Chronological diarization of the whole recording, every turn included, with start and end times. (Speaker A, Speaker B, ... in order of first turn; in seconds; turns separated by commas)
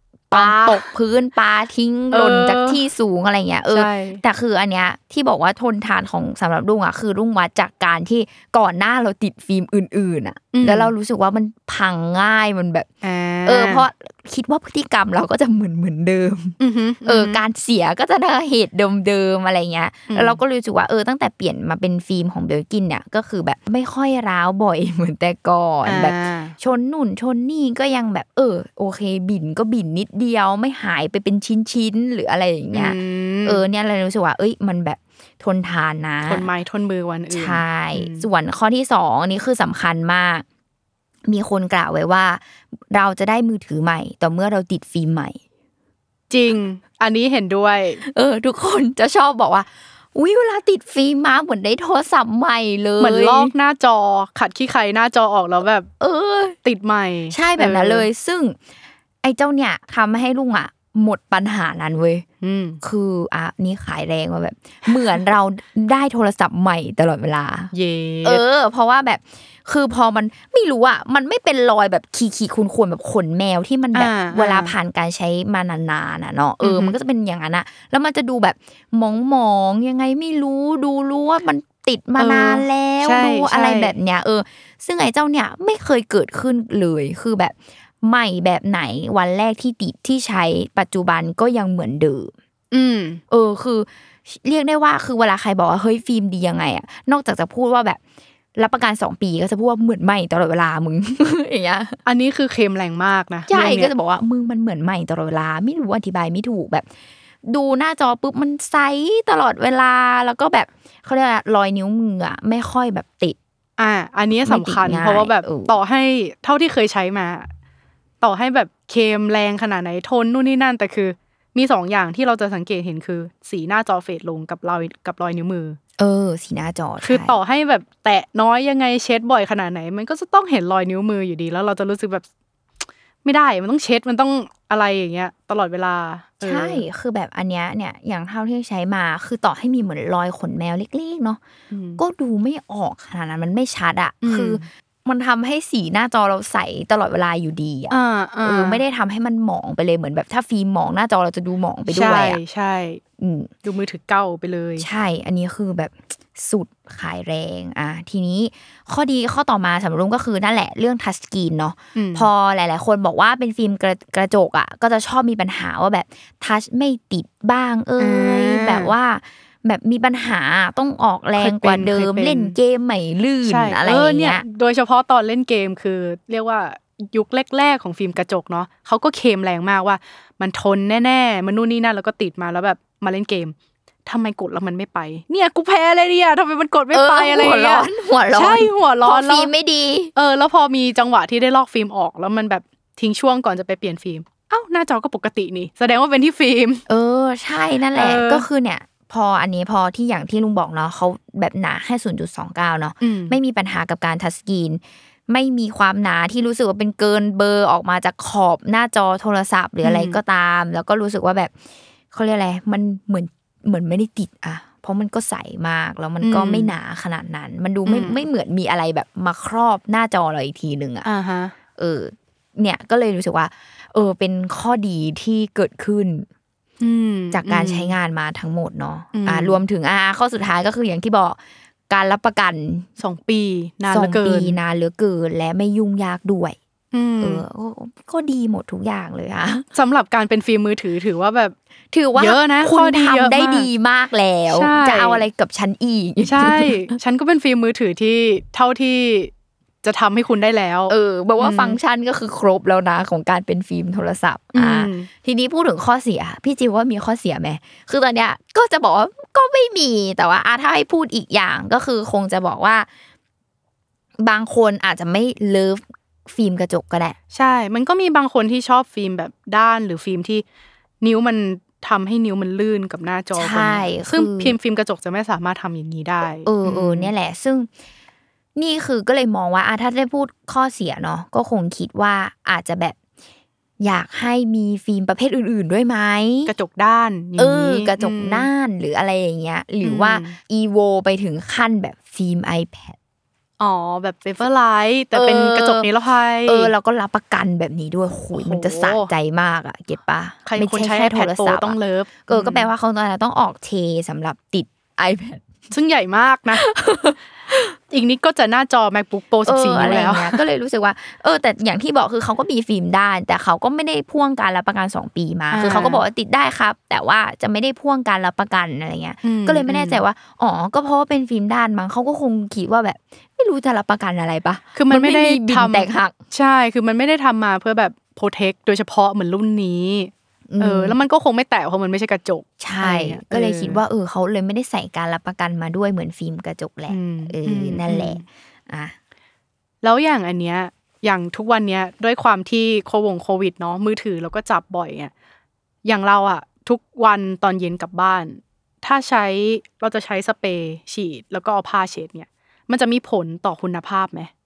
Speaker A: 0.3-0.9, Speaker B: 0.3-12.9, Speaker A: 2.1-2.8, Speaker A: 3.7-4.2, Speaker A: 10.5-10.9, Speaker A: 13.0-13.9, Speaker B: 13.5-36.5, Speaker A: 16.6-17.4, Speaker A: 20.1-20.4, Speaker A: 25.9-26.6, Speaker A: 32.7-33.6, Speaker A: 36.2-38.3, Speaker B: 37.3-40.5, Speaker B: 41.3-45.4, Speaker A: 46.3-48.0, Speaker B: 48.0-53.5, Speaker A: 53.0-55.9, Speaker B: 56.0-56.6, Speaker A: 56.6-58.1, Speaker B: 57.3-58.6, Speaker B: 59.2-62.2, Speaker A: 62.4-62.8, Speaker B: 62.8-67.7, Speaker A: 67.7-68.4, Speaker B: 68.2-92.3, Speaker A: 73.9-74.7, Speaker A: 76.6-77.0, Speaker A: 82.2-84.0, Speaker A: 92.7-93.2, Speaker B: 93.3-98.0, Speaker B: 98.6-102.0, Speaker A: 102.1-103.9, Speaker B: 103.5-106.9, Speaker B: 107.5-113.4, Speaker A: 113.8-117.5, Speaker B: 114.4-115.8, Speaker A: 118.2-125.8, Speaker B: 126.0-127.4, Speaker A: 127.0-132.2, Speaker A: 133.2-136.8, Speaker B: 136.4-141.4, Speaker A: 141.7-142.0, Speaker B: 142.0-152.4, Speaker A: 144.2-144.7, Speaker A: 147.9-148.8, Speaker A: 151.9-153.0, Speaker B: 153.2-153.5, Speaker A: 153.6-154.9, Speaker B: 154.8-174.4, Speaker A: 161.9-162.3, Speaker A: 168.0-168.9, Speaker A: 171.4-172.6, Speaker A: 173.4-183.6, Speaker A: 184.1-189.5, Speaker B: 186.9-190.1, Speaker A: 190.2-196.8, Speaker B: 196.9-211.5, Speaker A: 197.9-198.5, Speaker A: 203.0-203.4, Speaker A: 209.8-210.2, Speaker B: 212.1-221.1, Speaker A: 216.2-216.7, Speaker A: 217.8-218.2, Speaker A: 221.1-221.5, Speaker B: 221.8-226.3, Speaker A: 226.8-227.9, Speaker B: 227.3-231.4, Speaker A: 229.1-229.6, Speaker B: 231.9-232.9, Speaker A: 233.0-234.6, Speaker B: 233.9-236.6, Speaker A: 236.9-237.4, Speaker B: 237.2-239.7, Speaker A: 239.7-241.6, Speaker B: 241.9-246.9, Speaker A: 242.2-243.7, Speaker A: 244.5-245.2, Speaker A: 246.2-249.3, Speaker A: 249.8-251.8, Speaker B: 250.9-262.9, Speaker A: 254.5-255.1, Speaker B: 264.2-267.2, Speaker A: 267.3-270.4, Speaker A: 271.0-277.1, Speaker B: 273.4-274.6, Speaker B: 276.5-277.7, Speaker B: 278.6-283.0, Speaker B: 283.8-286.5, Speaker A: 286.5-288.5, Speaker B: 287.4-293.0, Speaker A: 289.8-290.4, Speaker A: 293.6-296.7, Speaker B: 295.1-295.9, Speaker B: 296.5-305.5, Speaker A: 298.3-299.1, Speaker A: 300.5-302.7, Speaker A: 305.7-306.6, Speaker B: 306.5-307.8, Speaker A: 307.9-310.4, Speaker B: 309.4-326.1, Speaker A: 315.5-316.0, Speaker A: 319.2-320.0, Speaker A: 324.8-333.8, Speaker B: 330.5-331.0, Speaker B: 332.6-338.9, Speaker A: 336.9-338.2, Speaker A: 339.8-345.1, Speaker A: 345.8-354.3